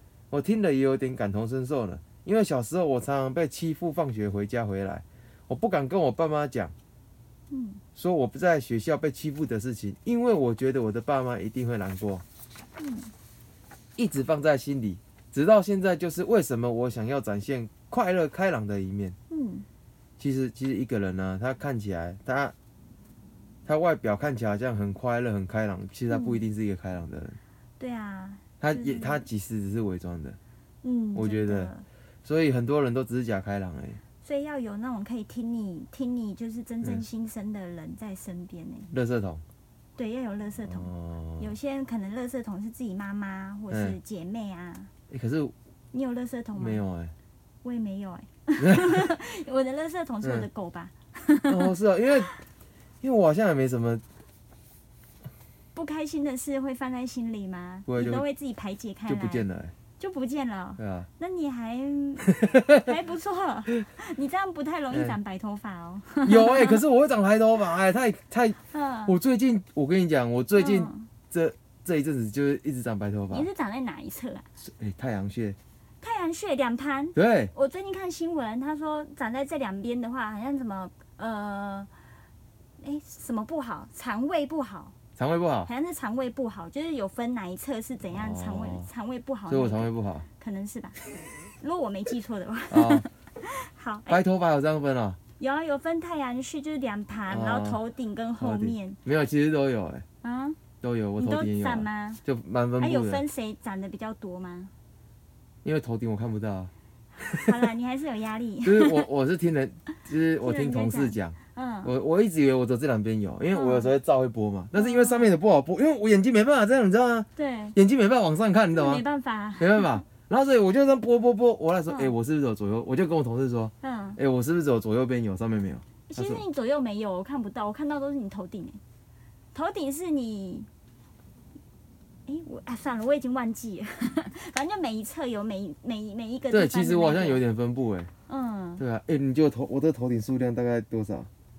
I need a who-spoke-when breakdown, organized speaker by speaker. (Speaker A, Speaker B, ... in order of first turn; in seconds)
Speaker A: 0.3-6.7, 8.0-12.2, 13.9-19.1, 20.2-22.5, 23.6-27.4, 28.6-30.4, 31.1-31.7, 32.2-34.0, 38.9-39.4, 40.6-41.5, 43.7-44.0, 45.1-45.5, 46.6-47.1, 48.6-49.1, 50.2-50.5, 51.5-52.3, 53.0-54.0, 57.9-58.2, 59.1-59.7, 60.8-61.1, 62.3-62.9, 66.2-73.5, 74.6-75.6, 77.1-77.5, 85.2-85.7, 88.1-88.9, 89.5-90.2, 92.7-93.0, 94.1-95.2, 97.3-97.8, 98.4-100.0, 100.8-103.2, 105.6-106.7, 107.2-107.5, 108.6-119.0, 119.6-126.4, 136.5-138.1, 138.8-141.3
Speaker B: 7.5-7.8, 12.8-13.1, 19.3-19.6, 26.1-26.4, 27.8-29.2, 30.8-31.9, 34.2-38.9, 40.0-44.9, 45.9-46.8, 47.6-51.7, 55.7-59.4, 60.0-66.8, 68.7-69.2, 70.5-71.1, 73.3-74.5, 76.0-81.9, 82.8-84.9, 85.7-91.0, 91.6-94.2, 95.4-99.0, 100.2-100.6, 101.2-102.2, 102.8-104.7, 107.2-109.0, 110.4-111.9, 113.5-113.9, 114.7-115.3, 117.3-117.8, 118.7-120.0, 121.9-122.1, 123.8-124.2, 126.1-128.8, 129.5-130.7, 132.3-137.4, 138.3-138.8